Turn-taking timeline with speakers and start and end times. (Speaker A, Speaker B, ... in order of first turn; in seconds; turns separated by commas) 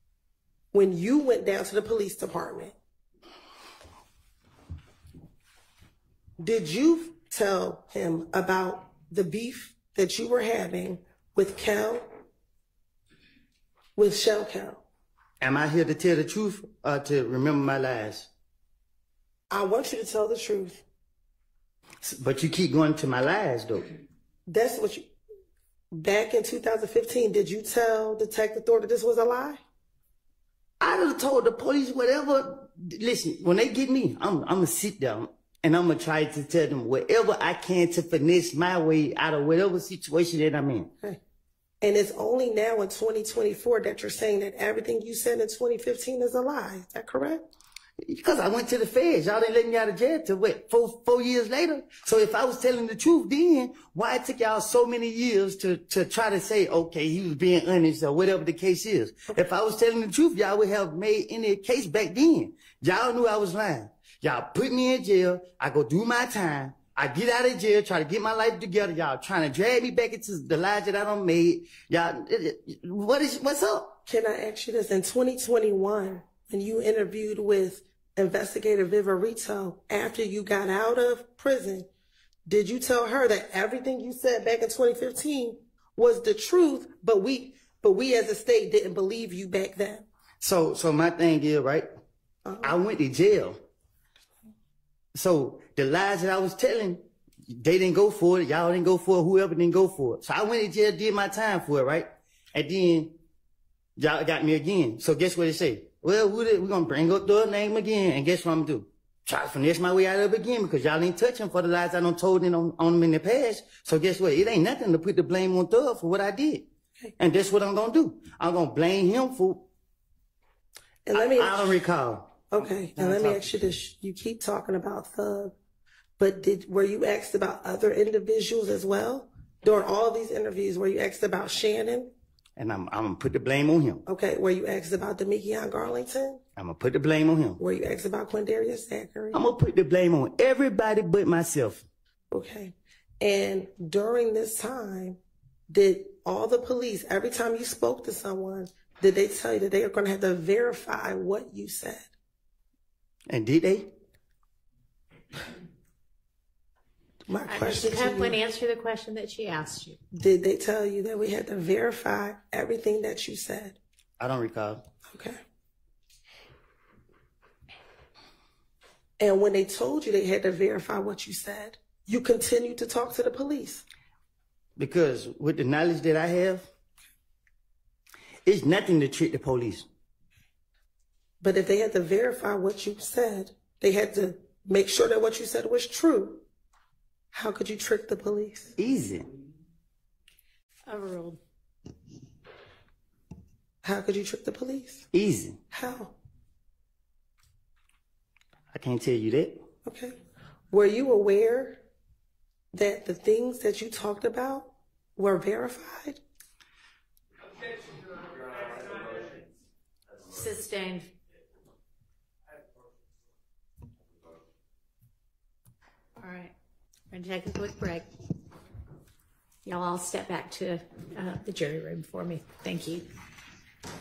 Speaker A: 0.7-2.8, Speaker A: 6.4-12.1, Speaker A: 13.9-14.8, Speaker B: 15.4-18.3, Speaker A: 19.5-20.8, Speaker B: 22.0-23.9, Speaker A: 24.5-25.1, Speaker A: 25.9-29.6, Speaker B: 30.8-40.9, Speaker A: 41.8-47.4, Speaker B: 48.0-74.0, Speaker A: 74.0-81.9, Speaker A: 82.5-90.0, Speaker B: 90.4-91.9, Speaker A: 92.5-92.8, Speaker B: 92.6-93.6, Speaker B: 95.1-103.2, Speaker B: 104.0-116.6, Speaker B: 117.2-119.6, Speaker A: 121.0-121.8, Speaker B: 121.1-123.5, Speaker A: 122.5-125.5, Speaker A: 126.2-132.1, Speaker B: 132.6-134.0, Speaker A: 134.1-136.4, Speaker B: 136.6-137.6, Speaker A: 137.6-139.4, Speaker B: 139.3-141.8, Speaker A: 142.3-152.1, Speaker B: 153.3-153.9, Speaker A: 157.3-158.3, Speaker C: 157.5-160.0, Speaker A: 160.1-163.8, Speaker B: 164.2-164.8, Speaker A: 165.1-165.4, Speaker A: 169.2-173.8, Speaker B: 174.8-176.7, Speaker B: 178.4-179.8, Speaker A: 181.4-186.4, Speaker A: 187.3-188.7, Speaker B: 188.8-189.3, Speaker C: 190.8-191.4, Speaker A: 193.8-195.1, Speaker B: 195.1-195.6, Speaker A: 195.7-196.1, Speaker B: 198.7-199.6, Speaker A: 199.8-200.1, Speaker A: 200.7-201.8, Speaker A: 202.7-206.2, Speaker C: 210.3-211.1, Speaker C: 216.2-216.5, Speaker C: 217.1-218.1, Speaker C: 219.6-223.1